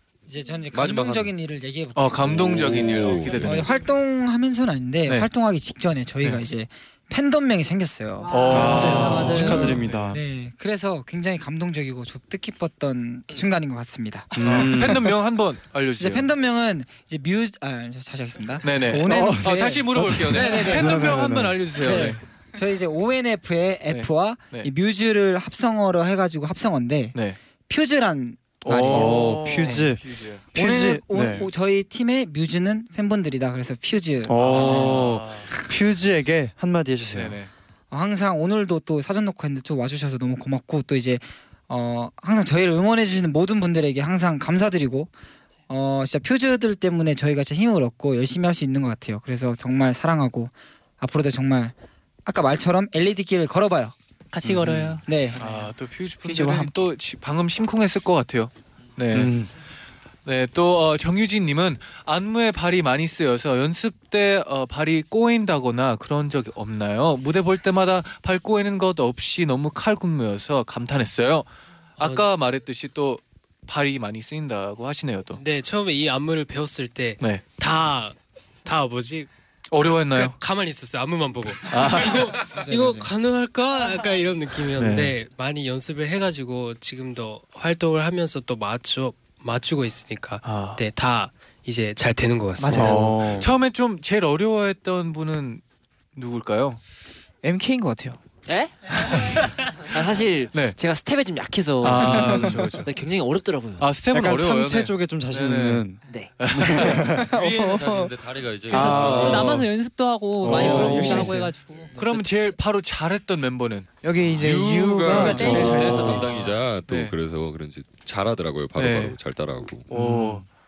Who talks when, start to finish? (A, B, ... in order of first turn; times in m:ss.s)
0:00.3-0:14.7 A
0:00.7-0:01.3 B
0:01.9-0:03.7 C
0:02.1-0:03.7 B
0:08.2-0:09.8 D
0:08.3-0:10.2 C
0:08.5-0:10.2 E
0:14.3-0:15.2 E
0:14.4-0:16.3 C
0:16.0-0:21.2 A
0:18.6-0:22.2 C
0:19.0-0:22.1 E
0:21.8-0:29.8 A
0:23.9-0:24.7 C
0:28.6-0:30.4 C
0:28.9-0:31.5 E
0:30.5-0:35.0 A
0:34.2-0:37.4 E
0:34.3-0:35.5 C
0:37.1-0:37.5 C
0:37.9-0:45.1 A
0:45.7-0:51.7 A
0:52.2-0:53.9 A
0:54.3-0:55.0 D
0:54.4-0:55.0 E
0:55.0-0:55.4 A
0:55.4-0:59.3 C
0:56.2-0:56.8 F
0:59.1-0:59.5 E
1:00.2-1:11.5 C
1:12.0-1:15.4 C
1:12.0-1:12.2 G
1:15.4-1:19.3 G
1:19.7-1:20.4 C
1:20.1-1:33.0 G
1:21.6-1:22.3 C
1:22.6-1:23.1 A
1:24.8-1:25.1 C
1:30.4-1:30.8 C
1:32.6-1:33.2 F
1:32.7-1:33.5 E
1:33.4-1:35.6 C
1:36.1-1:36.8 C
1:37.4-1:38.2 F
1:38.4-1:43.9 H
1:40.5-1:40.8 C
1:41.8-1:42.9 C
1:42.0-1:42.6 E
1:43.8-1:45.9 C
1:44.1-1:47.3 E
1:46.1-1:46.3 H
1:46.4-1:47.0 C
1:47.2-1:49.6 B
1:47.3-1:48.1 F
1:48.7-1:52.2 D
1:48.7-1:49.6 E
1:49.2-1:49.5 C
1:50.4-1:51.3 E
1:50.4-1:51.4 C
1:50.5-1:51.5 F
1:51.9-1:53.9 C
1:54.0-1:56.2 F
1:54.3-1:59.9 B
1:55.1-1:56.4 D
1:55.4-1:55.7 E
1:55.5-1:57.1 C
1:58.8-1:59.2 C
1:59.9-2:00.4 C
1:59.9-2:00.4 E